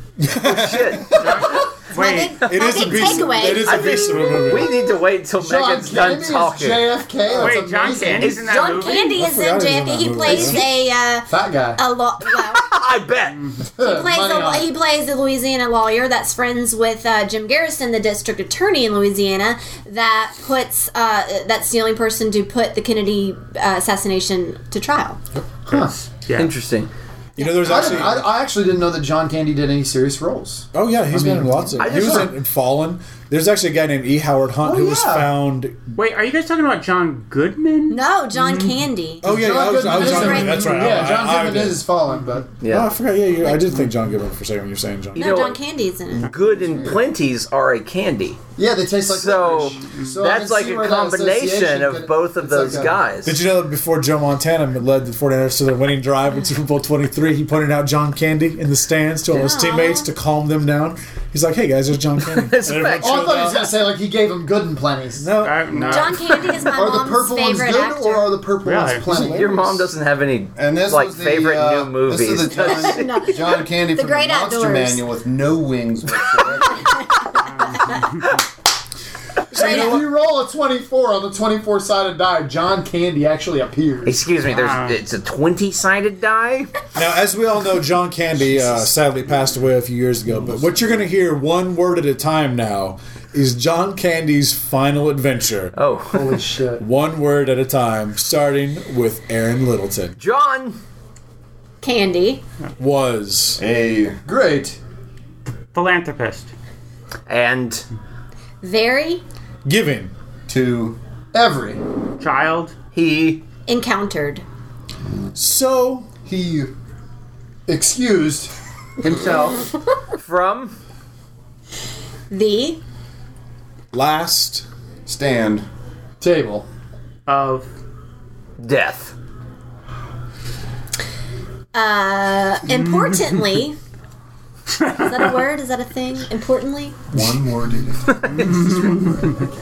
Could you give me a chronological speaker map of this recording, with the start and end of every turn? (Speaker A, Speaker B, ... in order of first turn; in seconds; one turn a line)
Speaker A: 0.2-1.4
Speaker B: 0.4-1.6
Speaker C: 1.2-2.4
Speaker D: 1.9-4.5
Speaker A: 2.5-4.7
Speaker B: 3.4-6.9
Speaker E: 5.4-8.6
Speaker C: 7.3-9.2
Speaker B: 8.2-8.9
Speaker D: 8.5-12.6
Speaker A: 9.1-10.6
Speaker B: 10.2-10.7
Speaker E: 11.3-11.8
Speaker B: 12.4-13.4
Speaker E: 13.8-14.7
Speaker D: 13.8-25.2
Speaker E: 25.4-25.9
Speaker C: 25.7-26.5
Speaker B: 26.3-26.9
Speaker A: 27.4-28.3
Speaker E: 27.4-32.3
Speaker A: 30.7-35.8
Speaker B: 31.8-32.3
Speaker E: 34.6-35.3
Speaker C: 36.0-38.8
Speaker D: 37.9-39.3
Speaker A: 39.2-41.8
Speaker E: 39.2-42.5
Speaker D: 39.8-40.9
Speaker B: 42.6-42.9
Speaker A: 42.7-45.5
Speaker B: 45.1-45.6
Speaker D: 45.1-46.3
Speaker B: 46.2-48.4
Speaker F: 46.6-46.9
Speaker E: 48.6-53.0
Speaker B: 49.1-53.4
Speaker A: 53.2-63.8
Speaker D: 59.3-60.1
Speaker B: 62.3-63.2
Speaker E: 63.0-65.3
Speaker A: 65.2-66.4
Speaker C: 65.4-66.4
Speaker D: 65.9-68.4
Speaker E: 66.7-69.8
Speaker C: 68.6-69.0
Speaker A: 69.1-69.6
Speaker B: 69.1-73.1
Speaker F: 70.6-77.0
Speaker D: 72.6-75.0
Speaker D: 76.3-78.1
Speaker C: 77.4-78.4
Speaker A: 79.5-80.1
Speaker E: 79.5-84.2
Speaker D: 79.6-80.0
Speaker B: 84.0-86.7
Speaker C: 84.5-85.0
Speaker A: 87.0-95.8
Speaker B: 95.8-96.4
Speaker E: 96.1-96.8
Speaker A: 96.8-100.2
Speaker B: 100.2-100.8
Speaker D: 101.8-102.4
Speaker A: 102.8-103.6
Speaker F: 103.6-104.2
Speaker E: 104.2-104.8
Speaker C: 105.7-106.5
Speaker B: 107.3-107.8
Speaker D: 108.6-109.2
Speaker A: 109.7-110.1
Speaker F: 110.5-111.0
Speaker E: 111.3-111.8
Speaker C: 112.2-112.7
Speaker B: 112.9-113.4
Speaker D: 113.7-114.4
Speaker A: 115.3-116.1
Speaker F: 116.3-116.7
Speaker E: 117.7-118.5
Speaker C: 119.0-119.6
Speaker B: 120.2-120.8
Speaker D: 122.3-122.8
Speaker A: 123.9-124.7
Speaker F: 125.1-125.7
Speaker E: 126.2-126.7
Speaker C: 127.3-127.7
Speaker B: 128.6-129.2
Speaker D: 131.7-133.8
Speaker D: 135.0-137.0
Speaker F: 137.1-138.7
Speaker B: 138.1-138.6
Speaker C: 138.6-139.3